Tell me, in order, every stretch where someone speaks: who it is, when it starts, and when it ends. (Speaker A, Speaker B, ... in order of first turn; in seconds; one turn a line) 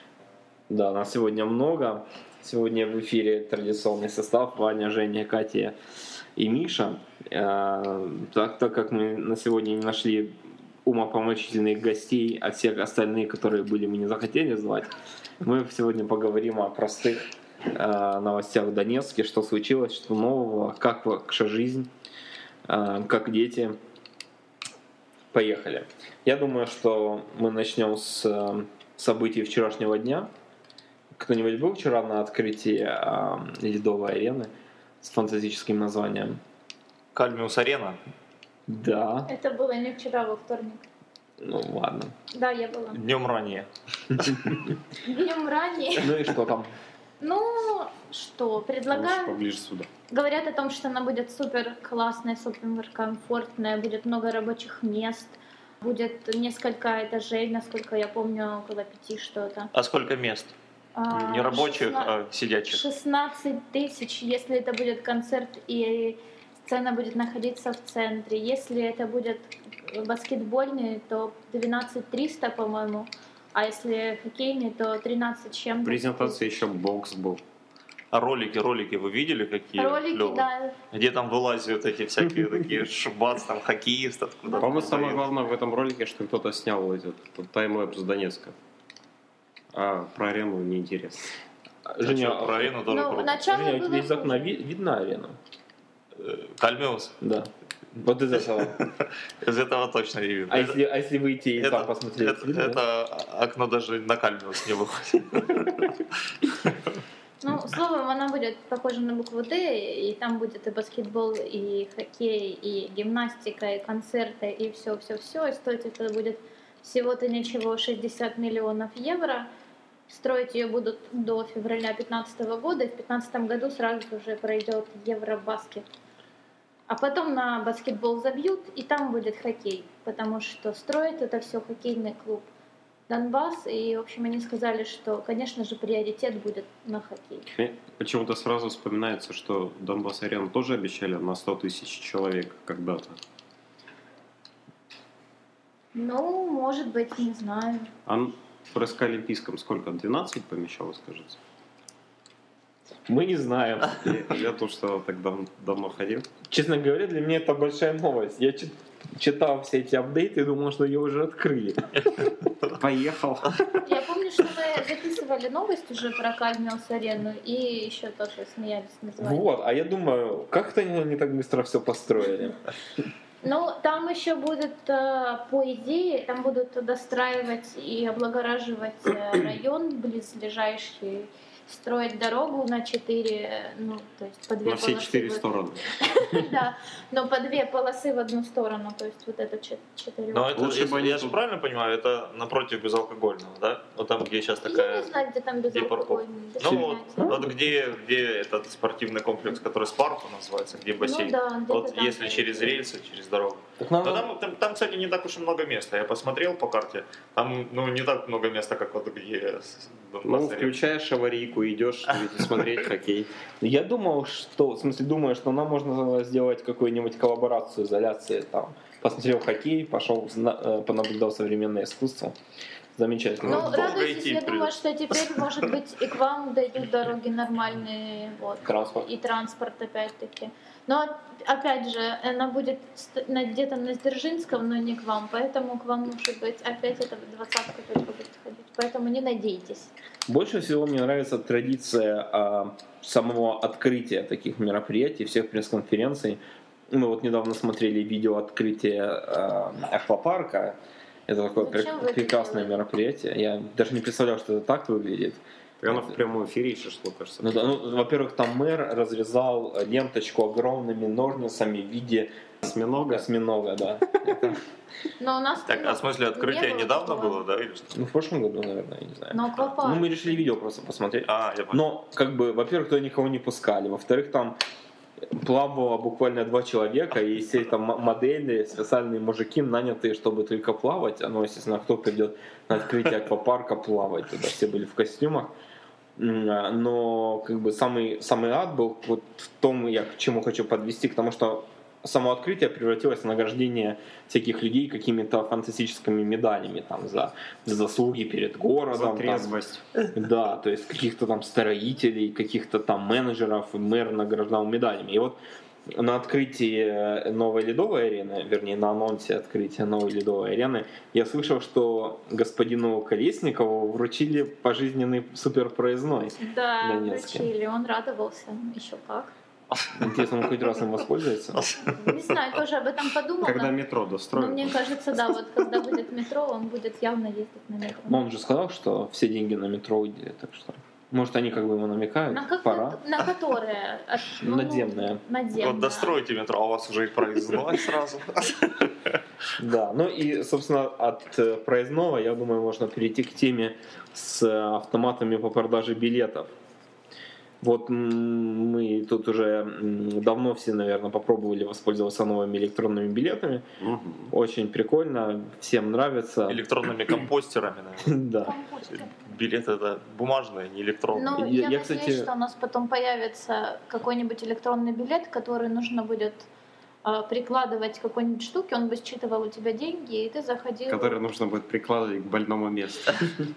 Speaker A: 0.7-5.7
Speaker A: 6.3-10.3
Speaker A: 10.8-21.9
Speaker A: 22.6-23.8
Speaker A: 25.3-30.3
Speaker A: 31.1-36.4
Speaker B: 37.1-38.0
Speaker A: 38.7-39.3
Speaker C: 39.3-40.9
Speaker A: 41.4-42.1
Speaker C: 42.3-43.0
Speaker B: 42.9-44.7
Speaker C: 45.0-46.1
Speaker A: 46.0-46.7
Speaker C: 47.2-49.4
Speaker D: 48.9-49.9
Speaker C: 50.1-59.7
Speaker B: 59.7-60.5
Speaker C: 61.0-62.1
Speaker B: 61.1-62.8
Speaker C: 62.7-76.5
Speaker D: 75.8-77.4
Speaker B: 78.1-85.2
Speaker C: 79.8-80.8
Speaker C: 84.4-84.9
Speaker D: 84.5-88.5
Speaker D: 89.7-91.3
Speaker A: 91.9-92.7
Speaker B: 92.0-93.5
Speaker C: 92.9-94.5
Speaker A: 93.4-95.4
Speaker B: 96.2-97.1
Speaker A: 97.2-98.8
Speaker B: 98.8-100.8
Speaker A: 100.5-102.8
Speaker B: 101.6-106.0
Speaker C: 107.4-119.5
Speaker C: 120.1-125.8
Speaker C: 126.9-132.5
Speaker C: 133.1-137.5
Speaker D: 137.5-143.2
Speaker C: 145.9-147.9
Speaker D: 148.1-151.4
Speaker A: 153.1-154.1
Speaker D: 153.9-156.3
Speaker A: 156.5-161.9
Speaker D: 162.7-163.8
Speaker C: 163.8-169.4
Speaker A: 169.2-172.6
Speaker C: 173.4-185.4
Speaker D: 184.6-185.9
Speaker C: 186.1-190.6
Speaker B: 190.3-195.1
Speaker D: 190.5-191.4
Speaker C: 194.6-197.5
Speaker B: 195.7-210.8
Speaker A: 196.6-197.5
Speaker C: 201.0-202.8
Speaker A: 203.8-204.3
Speaker D: 210.2-213.3
Speaker A: 213.6-222.3
Speaker A: 222.9-223.9
Speaker B: 223.4-225.4
Speaker C: 223.4-239.9
Speaker A: 228.6-229.1
Speaker A: 240.3-250.8
Speaker A: 251.3-256.2
Speaker C: 251.6-252.7
Speaker D: 255.8-257.8
Speaker A: 257.4-262.5
Speaker D: 262.6-263.2
Speaker A: 263.1-264.6
Speaker C: 265.2-267.4
Speaker B: 265.7-267.9
Speaker A: 267.9-274.6
Speaker C: 269.3-270.4
Speaker B: 271.2-271.8
Speaker A: 275.3-285.5
Speaker A: 286.2-299.5
Speaker D: 298.9-299.8
Speaker A: 300.1-305.4
Speaker A: 305.9-317.5
Speaker C: 316.4-319.3
Speaker B: 319.7-320.3
Speaker A: 319.9-321.7
Speaker B: 321.6-322.4
Speaker C: 322.0-323.8
Speaker D: 323.4-324.9
Speaker C: 324.3-328.2
Speaker A: 328.1-333.0
Speaker C: 332.3-336.1
Speaker A: 334.4-335.2
Speaker B: 335.6-339.2
Speaker A: 339.6-346.5
Speaker A: 347.6-353.6
Speaker D: 353.8-354.3
Speaker A: 354.3-356.6
Speaker B: 356.5-358.2
Speaker A: 358.0-358.5
Speaker C: 358.4-359.2
Speaker B: 358.9-361.4
Speaker C: 361.1-366.5
Speaker A: 361.3-362.3
Speaker C: 367.0-371.2
Speaker D: 370.9-373.4